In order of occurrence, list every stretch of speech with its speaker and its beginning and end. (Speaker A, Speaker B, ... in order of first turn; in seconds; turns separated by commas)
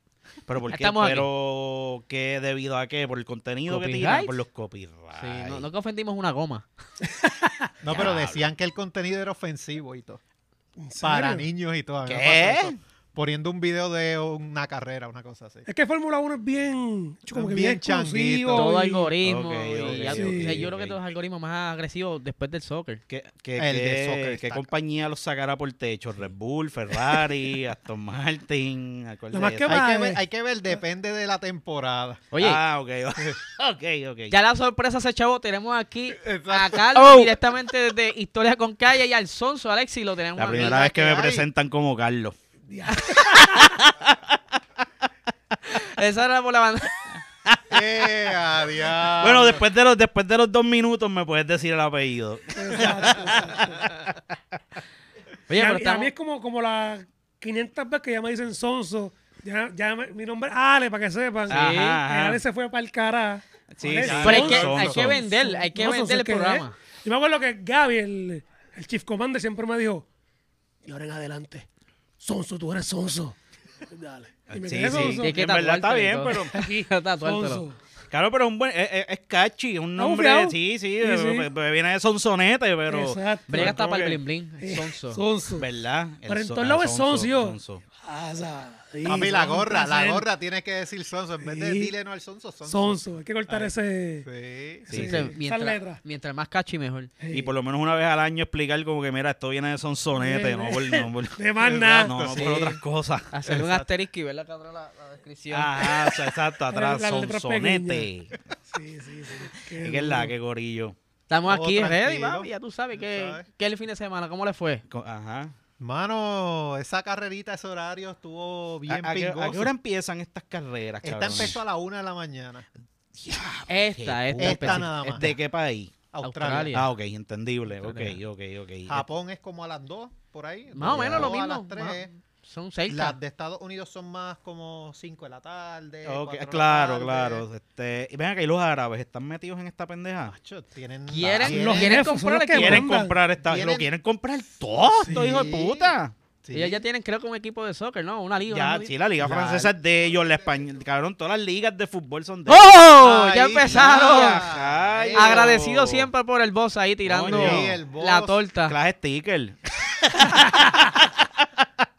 Speaker A: 0.5-5.6, Speaker B: 0.7-1.3, Speaker B: 3.7-4.3, Speaker B: 5.1-6.7, Speaker C: 7.0-7.7, Speaker D: 7.8-10.2, Speaker A: 7.9-8.4, Speaker C: 10.8-11.4, Speaker D: 11.0-15.7, Speaker A: 12.1-12.8, Speaker C: 15.7-19.1, Speaker D: 17.3-18.7, Speaker B: 18.5-23.0, Speaker A: 19.2-21.0, Speaker C: 20.1-20.6, Speaker A: 23.1-29.8, Speaker D: 23.6-24.7, Speaker C: 29.3-30.2, Speaker D: 29.7-32.2, Speaker B: 32.3-32.6, Speaker A: 32.4-34.3, Speaker B: 34.3-40.9, Speaker D: 36.1-37.3, Speaker A: 40.4-42.3, Speaker D: 40.5-41.5, Speaker C: 42.7-43.6, Speaker B: 43.0-44.1, Speaker B: 45.6-46.9, Speaker A: 47.5-47.8, Speaker D: 47.7-49.6, Speaker A: 49.2-54.2, Speaker C: 52.5-53.8, Speaker B: 55.5-56.1, Speaker C: 55.5-70.1, Speaker B: 61.5-62.0, Speaker A: 61.5-62.4, Speaker A: 63.7-65.2, Speaker D: 64.1-64.4, Speaker B: 64.1-66.8, Speaker C: 70.8-71.7, Speaker C: 72.2-75.3, Speaker A: 74.5-76.5, Speaker B: 74.9-77.7, Speaker C: 76.5-77.8, Speaker A: 78.1-84.2, Speaker C: 80.0-81.5, Speaker C: 82.9-83.8, Speaker B: 83.5-85.2, Speaker C: 84.6-85.7, Speaker A: 85.6-87.8, Speaker C: 86.3-90.2, Speaker D: 89.0-93.7, Speaker C: 91.4-91.9, Speaker C: 92.7-94.3, Speaker D: 94.2-94.9, Speaker C: 94.9-96.0, Speaker A: 94.9-95.3, Speaker B: 95.0-97.1, Speaker C: 97.2-97.5, Speaker A: 97.3-101.4, Speaker C: 100.2-102.1, Speaker D: 101.6-102.5, Speaker A: 102.0-103.3, Speaker B: 102.3-102.8, Speaker B: 103.3-106.0, Speaker D: 103.5-103.9, Speaker A: 105.5-108.4, Speaker C: 106.7-108.1, Speaker C: 108.7-110.3, Speaker A: 109.7-110.9, Speaker B: 111.3-114.8, Speaker D: 111.5-113.4, Speaker A: 114.9-115.5, Speaker D: 115.8-119.7, Speaker A: 118.9-121.6, Speaker D: 121.0-122.7, Speaker A: 123.2-125.9, Speaker B: 123.7-125.4, Speaker D: 124.4-125.3, Speaker D: 126.1-126.8, Speaker B: 126.2-126.9, Speaker A: 126.7-129.1, Speaker B: 127.8-128.2, Speaker D: 128.9-132.1, Speaker B: 130.7-133.2, Speaker A: 130.8-131.3, Speaker D: 132.9-137.4, Speaker A: 136.1-140.3, Speaker D: 140.3-142.0, Speaker B: 141.1-142.9, Speaker C: 141.5-143.2, Speaker A: 142.5-146.1, Speaker D: 143.4-143.9, Speaker C: 145.0-145.3, Speaker D: 145.1-146.8, Speaker B: 146.5-148.9, Speaker A: 148.5-152.7, Speaker D: 149.2-150.6, Speaker B: 152.5-154.4, Speaker D: 153.0-155.6, Speaker A: 153.7-156.1, Speaker B: 155.1-158.8, Speaker A: 157.1-157.8, Speaker D: 157.3-158.4, Speaker A: 158.7-161.3, Speaker B: 160.2-160.9